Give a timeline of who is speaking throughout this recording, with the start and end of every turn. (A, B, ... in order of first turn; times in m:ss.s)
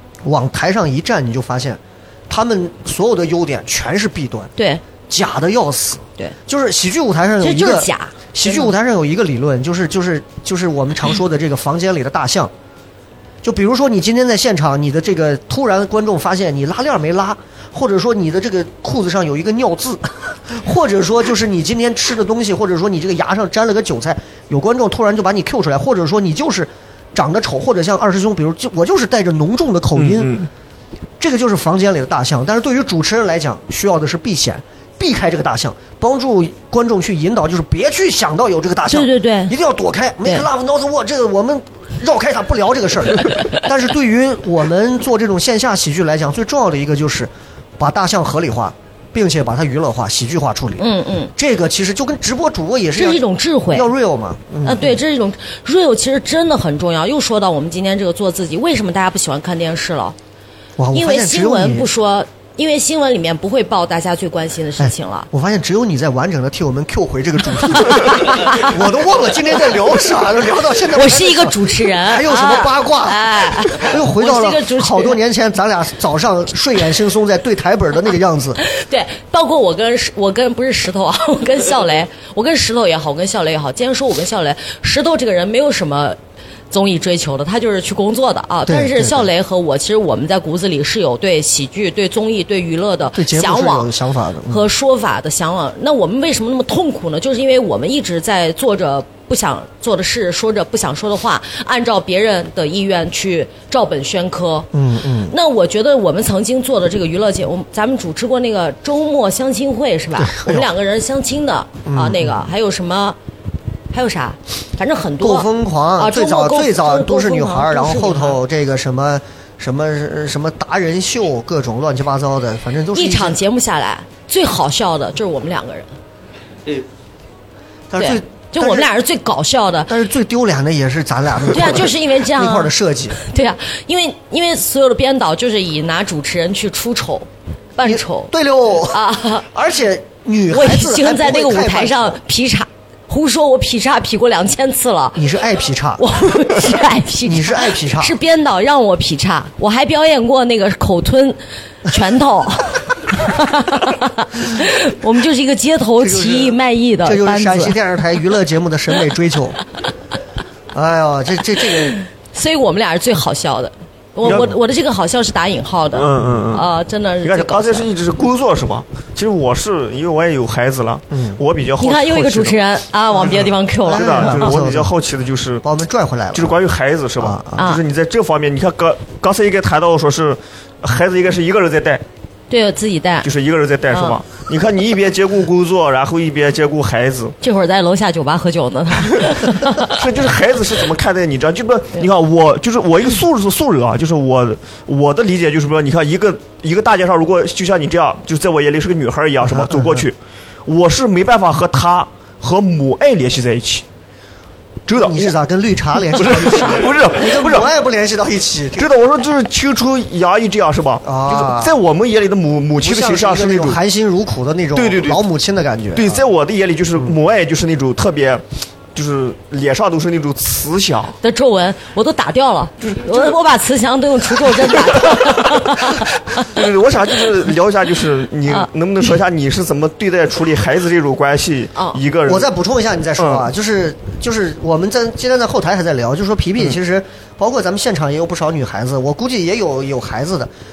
0:00.2-0:04.5 A
0:04.6-0:04.8 B
0:05.1-0:12.5 A
0:07.4-0:08.7 B
0:13.4-0:30.3 A
0:30.0-0:30.5 C
0:31.2-0:55.0 A
0:38.9-0:39.5 B
0:50.8-0:51.3 B
0:53.0-0:53.9 B
0:54.6-1:00.2 B
1:00.8-1:01.9 A
1:00.9-1:05.3 B
1:04.8-1:18.6 A
1:07.9-1:08.7 B
1:10.9-1:15.2 B
1:18.6-1:26.2 B
1:26.7-1:33.9 B
1:28.7-1:29.3 A
1:33.1-1:34.6 A
1:34.5-1:44.7 B
1:44.7-1:45.3 A
1:45.3-1:53.2 B
1:50.2-1:50.7 A
1:51.9-1:52.5 A
1:53.9-1:58.4 B
1:55.2-2:03.4 A
2:02.9-2:05.9 B
2:07.9-2:08.9 A
2:08.0-2:09.9 B
2:09.9-2:13.2 A
2:11.5-2:18.3 B
2:17.8-2:22.2 A
2:18.8-2:19.5 B
2:20.5-2:25.3 B
2:25.2-2:26.0 A
2:26.0-2:37.8 B
2:27.2-2:28.2 A
2:36.0-2:39.6 A
2:40.7-2:42.0 A
2:41.9-2:47.9 B
2:44.2-2:44.5 C
2:45.9-2:46.7 C
2:47.2-2:52.6 C
2:51.1-2:51.4 A
2:51.8-2:54.5 B
2:53.2-2:55.6 C
2:53.8-2:54.9 A
2:55.6-2:56.6 A
2:56.3-3:02.0 C
2:57.2-2:57.6 A
3:02.5-3:03.3 B
3:03.2-3:07.4 C
3:03.9-3:04.2 B
3:07.4-3:10.0 B
3:09.8-3:20.2 C
3:19.4-3:20.1 A
3:20.7-3:23.8 C
3:24.9-3:25.3 C
3:25.0-3:28.9 A
3:26.1-3:27.7 C
3:28.8-3:33.8 C
3:31.0-3:31.8 A
3:32.8-3:36.2 A
3:34.8-3:35.2 C
3:36.0-3:38.4 C
3:39.0-3:41.2 C
3:41.2-3:46.5 B
3:46.4-3:52.5 C
3:52.3-4:00.5 A
3:53.2-3:53.5 C